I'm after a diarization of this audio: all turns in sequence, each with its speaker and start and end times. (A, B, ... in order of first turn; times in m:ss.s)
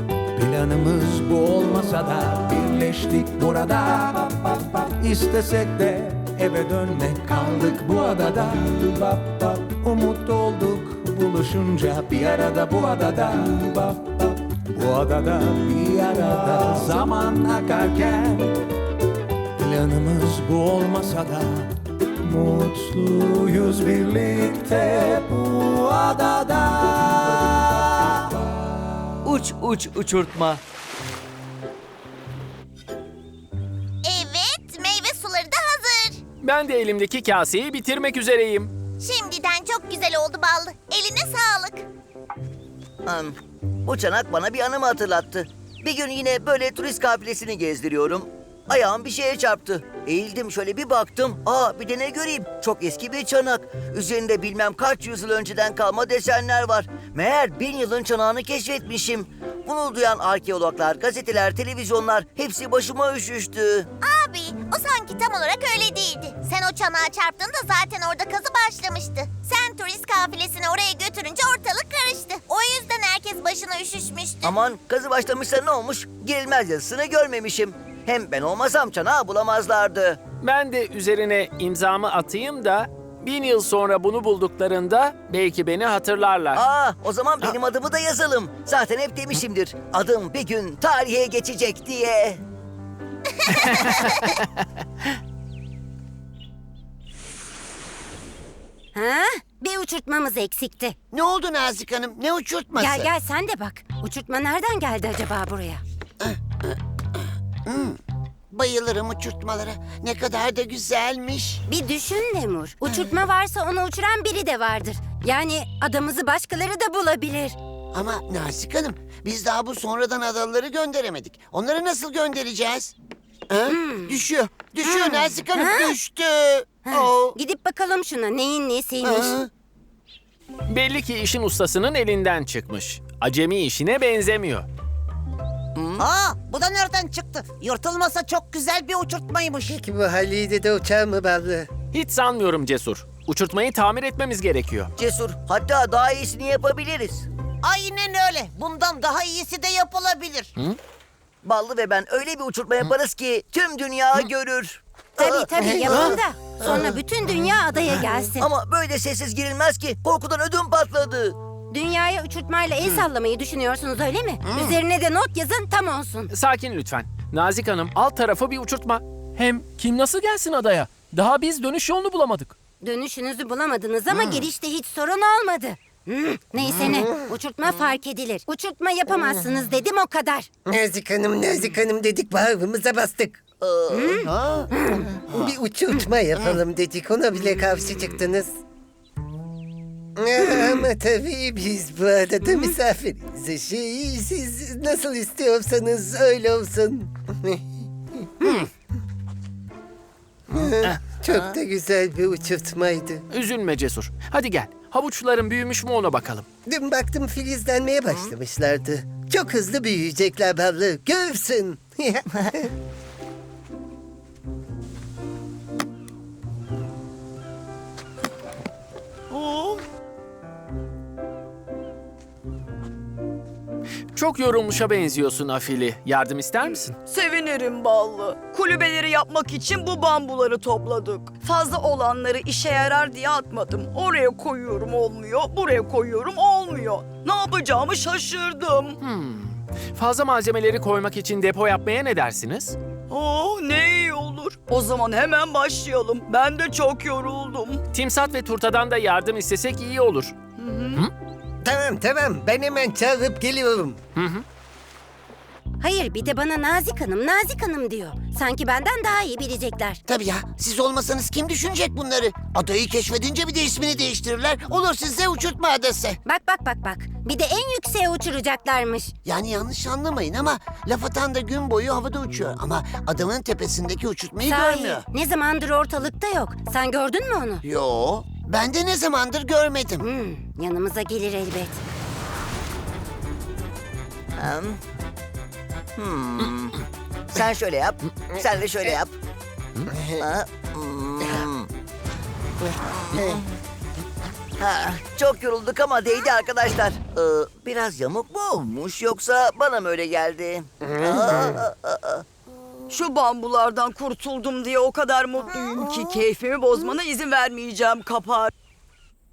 0:00.4-0:18.6 A
0:19.6-0:21.7 A
0:22.2-0:28.0 A
0:29.2-0:30.6 B
0:34.0-0:36.2 C
0:36.4-0:38.7 D
0:39.0-0:41.8 C
0:43.1-1:03.9 B
1:04.0-1:14.5 C
1:14.4-1:20.2 B
1:20.4-1:26.6 D
1:26.5-1:32.4 B
1:33.7-1:34.1 B
1:38.9-1:41.0 E
1:41.1-1:43.1 F
1:42.8-1:45.8 E
1:46.2-1:48.0 F
1:48.5-1:51.6 F
1:51.7-1:57.6 E
1:52.8-1:53.1 F
1:57.9-2:02.9 F
2:03.5-2:07.4 F
2:03.7-2:04.2 E
2:04.8-2:06.0 E
2:06.9-2:09.4 E
2:09.0-2:09.5 F
2:10.7-2:14.7 D
2:15.8-2:16.1 B
2:16.0-2:19.8 G
2:19.7-2:21.7 H
2:21.9-2:24.9 D
2:25.0-2:27.3 B
2:27.6-2:30.5 G
2:31.4-2:36.1 B
2:35.2-2:38.5 E
2:35.6-2:37.0 F
2:36.6-2:36.9 B
2:38.4-2:41.4 B
2:41.7-2:46.3 E
2:44.5-2:44.8 F
2:46.3-2:52.5 D
2:52.8-3:00.5 E
3:00.7-3:03.4 H
3:03.6-3:04.2 B
3:03.9-3:05.0 E
3:04.2-3:04.7 F
3:05.3-3:08.5 H
3:10.2-3:17.6 H
3:12.4-3:12.8 E
3:18.4-3:18.7 E
3:20.5-3:23.2 H
3:21.3-3:21.6 B
3:23.3-3:26.5 D
3:26.7-3:32.7 H
3:39.3-3:39.8 I
3:44.1-3:46.9 D
3:47.0-3:59.0 I
3:59.0-4:02.8 D
4:03.1-4:07.8 I
4:07.9-4:10.3 D
4:10.6-4:11.0 I
4:11.6-4:14.0 H
4:14.2-4:14.4 D
4:15.8-4:20.0 E
4:20.1-4:26.2 F
4:26.2-4:29.1 E
4:29.3-4:35.0 F
4:34.5-4:37.6 E
4:37.6-4:40.0 F
4:40.0-4:41.8 E
4:44.4-4:44.8 B
4:46.0-4:49.1 B
4:49.9-4:50.2 H
4:50.2-4:51.7 B
4:52.9-4:53.5 B
4:53.2-4:53.4 H
4:54.6-5:02.3 B
5:00.9-5:01.5 H
5:02.9-5:08.5 I